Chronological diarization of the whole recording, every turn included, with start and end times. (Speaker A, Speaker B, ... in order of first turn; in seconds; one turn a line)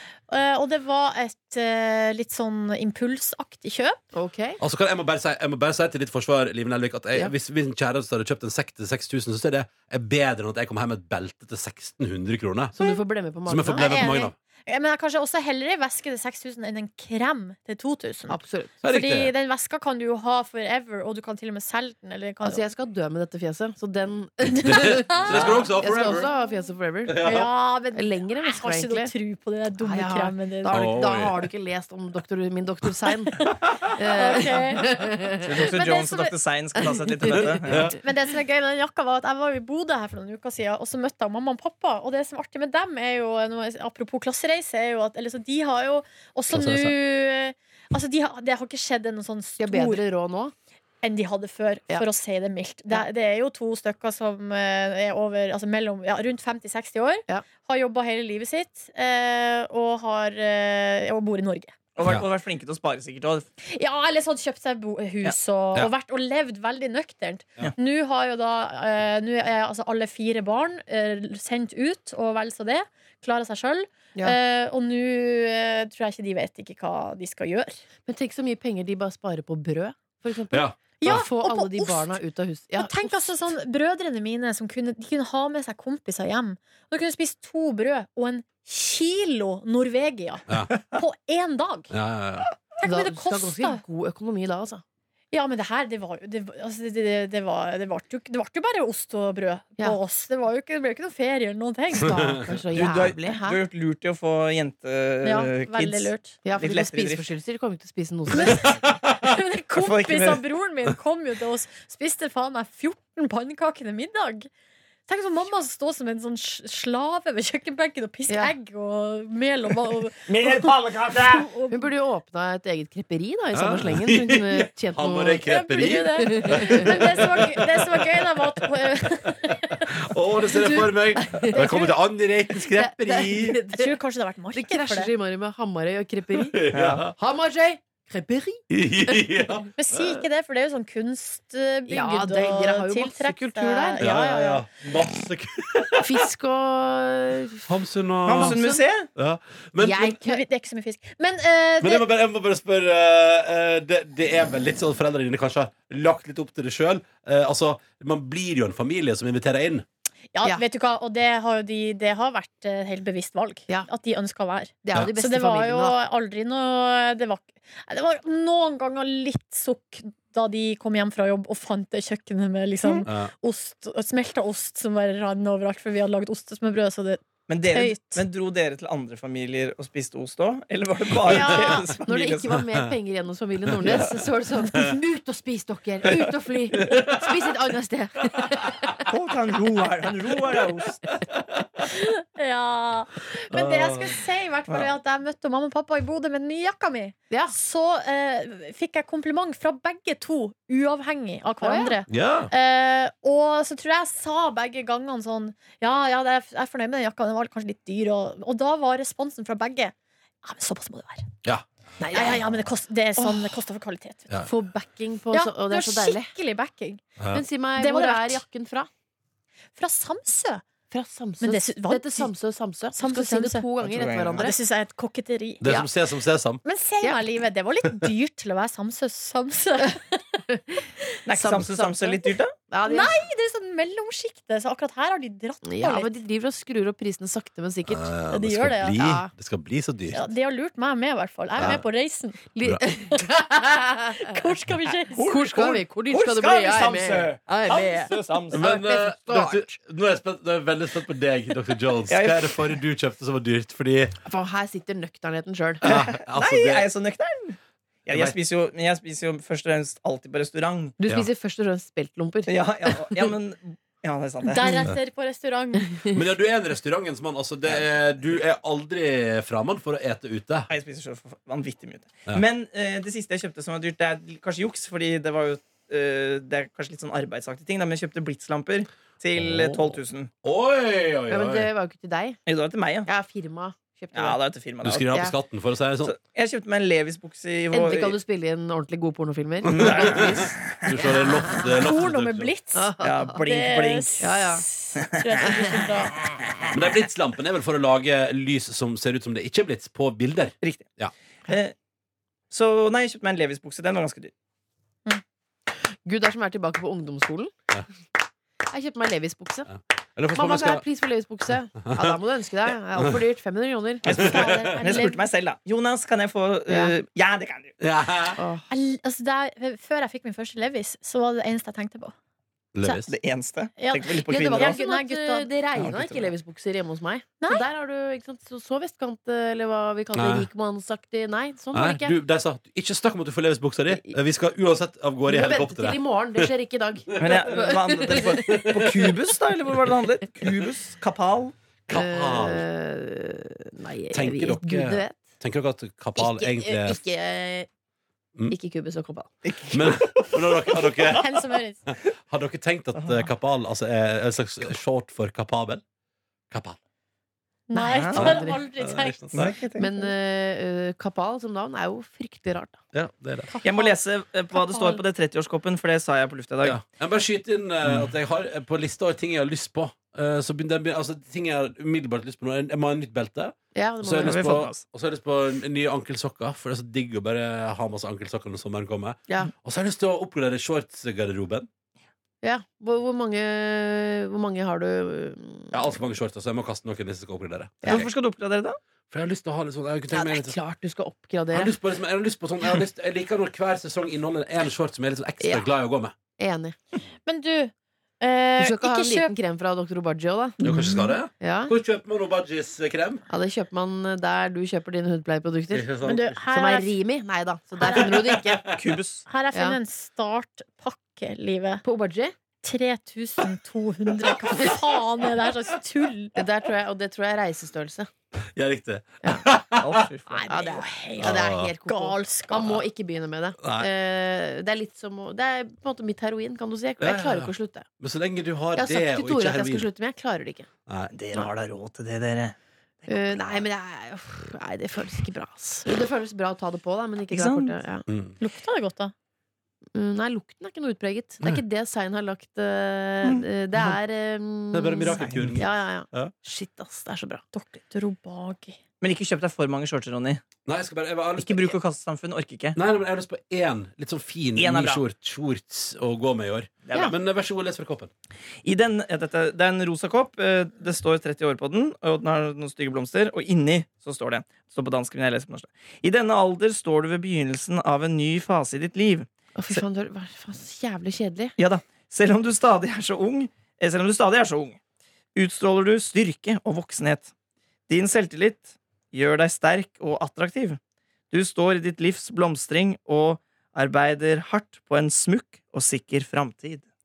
Speaker A: 0.3-4.0
Speaker B: 4.1-4.6
Speaker C: 4.6-12.7
Speaker B: 12.7-13.9
Speaker C: 13.4-14.3
Speaker A: 13.7-22.6
Speaker B: 18.3-18.7
Speaker C: 18.8-19.3
Speaker B: 22.4-27.4
Speaker A: 24.6-26.6
Speaker C: 24.6-26.3
Speaker C: 27.1-27.5
Speaker A: 27.2-30.8
Speaker B: 27.9-29.1
Speaker B: 29.8-35.4
Speaker C: 30.7-31.4
Speaker A: 33.4-35.0
Speaker D: 35.4-37.9
Speaker A: 35.5-36.3
Speaker B: 37.3-37.9
Speaker C: 37.3-38.0
Speaker A: 38.0-50.0
Speaker C: 46.5-46.9
Speaker B: 49.6-50.5
Speaker A: 51.0-61.8
Speaker D: 62.0-63.5
Speaker A: 63.6-77.8
Speaker B: 78.0-83.2
Speaker C: 80.5-81.2
Speaker A: 81.0-82.2
Speaker A: 82.8-91.9
Speaker C: 91.9-92.5
Speaker A: 92.8-93.8
Speaker B: 92.8-94.8
Speaker A: 95.3-102.2
Speaker B: 101.9-103.6
Speaker D: 102.7-107.2
Speaker A: 105.2-106.4
Speaker B: 106.4-108.7
Speaker A: 108.3-114.5
Speaker C: 108.4-109.2
Speaker D: 109.8-110.4
Speaker A: 115.1-121.9
Speaker B: 118.3-118.5
Speaker D: 120.3-121.5
Speaker B: 121.7-127.0
Speaker C: 123.5-128.2
Speaker A: 125.4-130.0
Speaker C: 129.8-133.6
Speaker B: 130.5-131.9
Speaker A: 130.5-130.8
Speaker A: 131.5-131.9
Speaker B: 132.5-133.9
Speaker A: 133.7-135.1
Speaker B: 134.5-136.6
Speaker C: 136.3-137.1
Speaker D: 136.7-137.0
Speaker B: 137.1-139.4
Speaker C: 138.7-140.2
Speaker A: 139.8-144.6
Speaker B: 141.9-144.4
Speaker C: 144.0-146.3
Speaker B: 146.0-147.7
Speaker C: 147.7-150.2
Speaker D: 148.2-149.1
Speaker B: 148.3-148.8
Speaker B: 149.8-150.4
Speaker A: 150.0-152.0
Speaker C: 151.8-159.8
Speaker A: 160.3-178.2
Speaker B: 164.8-166.0
Speaker C: 173.1-173.3
Speaker D: 177.5-182.6
Speaker B: 181.2-189.0
Speaker C: 183.8-184.1
Speaker C: 186.8-187.5
Speaker D: 189.0-191.0
Speaker A: 191.9-211.2
Speaker C: 193.5-194.2
Speaker B: 197.3-197.5
Speaker B: 201.6-202.0
Speaker C: 202.1-202.5
Speaker B: 212.0-212.5
Speaker A: 212.1-214.3
Speaker B: 213.2-213.5
Speaker B: 214.4-216.3
Speaker A: 215.3-217.0
Speaker C: 217.2-217.4
Speaker B: 217.3-218.9
Speaker A: 217.8-218.4
Speaker A: 219.8-220.6
Speaker B: 220.9-224.6
Speaker A: 221.4-222.3
Speaker A: 222.9-223.7
Speaker D: 223.8-224.5
Speaker A: 224.4-225.8
Speaker C: 225.6-226.6
Speaker A: 226.6-230.2
Speaker B: 230.5-233.2
Speaker D: 231.2-232.5
Speaker A: 232.8-236.1
Speaker B: 235.6-238.1
Speaker C: 237.9-240.3
Speaker A: 238.3-239.0
Speaker B: 238.9-239.3
Speaker A: 240.1-242.4
Speaker C: 241.6-241.8
Speaker B: 242.5-244.4
Speaker A: 244.1-245.3
Speaker D: 245.1-248.6
Speaker B: 245.2-249.8
Speaker C: 248.5-254.1
Speaker D: 252.1-252.7
Speaker B: 254.2-255.8
Speaker C: 255.8-256.9
Speaker D: 255.8-260.9
Speaker C: 258.1-258.4
Speaker B: 261.0-263.3
Speaker D: 262.5-264.6
Speaker A: 264.5-265.9
Speaker B: 264.6-264.9
Speaker C: 266.1-270.7
Speaker D: 270.7-280.3
Speaker C: 279.4-281.7
Speaker B: 281.3-282.4
Speaker D: 282.5-283.1
Speaker B: 283.1-284.4
Speaker D: 284.1-285.1
Speaker C: 284.8-286.1
Speaker D: 286.0-288.2
Speaker B: 287.7-291.8
Speaker D: 289.7-290.9
Speaker C: 289.7-292.5
Speaker A: 291.8-296.2
Speaker B: 292.7-293.4
Speaker D: 293.0-294.2
Speaker B: 294.2-294.6
Speaker D: 294.9-295.2
Speaker B: 295.4-295.7
Speaker C: 296.7-301.1
Speaker D: 300.6-300.9
Speaker D: 301.5-301.7
Speaker D: 302.5-304.3
Speaker B: 306.0-307.5
Speaker B: 308.7-309.7
Speaker C: 309.7-310.8
Speaker B: 310.3-314.3
Speaker C: 311.9-312.2
Speaker D: 314.0-317.8
Speaker C: 314.1-314.8
Speaker A: 314.1-315.2
Speaker C: 317.8-318.4
Speaker B: 318.4-318.7
Speaker A: 318.7-322.1
Speaker C: 322.7-323.1
Speaker D: 323.1-324.8
Speaker A: 323.8-325.5
Speaker B: 324.3-332.1
Speaker D: 325.8-326.3
Speaker A: 327.4-327.6
Speaker C: 330.1-330.5
Speaker C: 331.7-336.5
Speaker B: 333.9-334.2
Speaker B: 335.3-338.6
Speaker C: 337.1-339.1
Speaker D: 337.2-341.5
Speaker C: 341.9-342.6
Speaker B: 341.9-345.2
Speaker C: 344.1-347.0
Speaker B: 346.1-347.7
Speaker B: 348.5-349.3
Speaker D: 349.4-351.1
Speaker C: 349.7-355.8
Speaker A: 351.1-351.8
Speaker D: 352.9-353.3
Speaker C: 356.5-356.8
Speaker A: 357.7-359.5
Speaker B: 357.7-358.6
Speaker D: 357.9-358.3
Speaker C: 358.1-359.6
Speaker D: 359.3-359.9
Speaker B: 359.7-362.8
Speaker C: 362.9-363.5
Speaker A: 363.5-363.9
Speaker D: 363.6-366.8
Speaker A: 364.5-365.0
Speaker C: 366.6-381.7
Speaker B: 373.7-374.6
Speaker D: 374.2-374.8
Speaker B: 382.4-385.8
Speaker C: 385.7-388.1
Speaker D: 387.8-388.8
Speaker C: 389.1-390.6
Speaker B: 390.1-391.7
Speaker C: 391.5-396.1
Speaker B: 395.4-395.7
Speaker B: 396.4-396.8
Speaker A: 397.2-399.3
Speaker B: 398.6-401.7
Speaker C: 400.6-403.2
Speaker B: 403.3-405.9
Speaker C: 405.7-406.4
Speaker A: 406.0-406.9
Speaker B: 406.5-408.7
Speaker A: 407.8-408.1
Speaker C: 407.9-408.8
Speaker D: 408.7-409.2
Speaker A: 409.3-411.8
Speaker B: 409.5-409.8
Speaker B: 411.8-412.3
Speaker A: 412.6-416.3
Speaker B: 416.3-418.1
Speaker C: 418.5-420.1
Speaker D: 419.8-420.5
Speaker A: 420.3-422.7
Speaker B: 420.5-427.9
Speaker C: 421.2-421.7
Speaker C: 423.6-423.9
Speaker C: 427.0-429.9
Speaker B: 428.7-430.7
Speaker C: 430.9-431.1
Speaker D: 431.1-433.6
Speaker B: 433.1-438.1
Speaker D: 437.3-437.7
Speaker C: 438.1-438.3
Speaker A: 438.4-439.1
Speaker B: 439.9-447.4
Speaker C: 444.7-446.3
Speaker D: 445.1-445.6
Speaker A: 447.5-448.8
Speaker D: 449.0-450.4
Speaker C: 450.6-451.8
Speaker D: 451.4-452.8
Speaker C: 452.7-458.1
Speaker D: 454.6-455.0
Speaker D: 456.8-457.1
Speaker D: 458.6-469.8
Speaker B: 469.5-471.5
Speaker D: 471.6-474.8
Speaker D: 475.3-477.3
Speaker D: 477.9-480.8
Speaker D: 481.3-486.8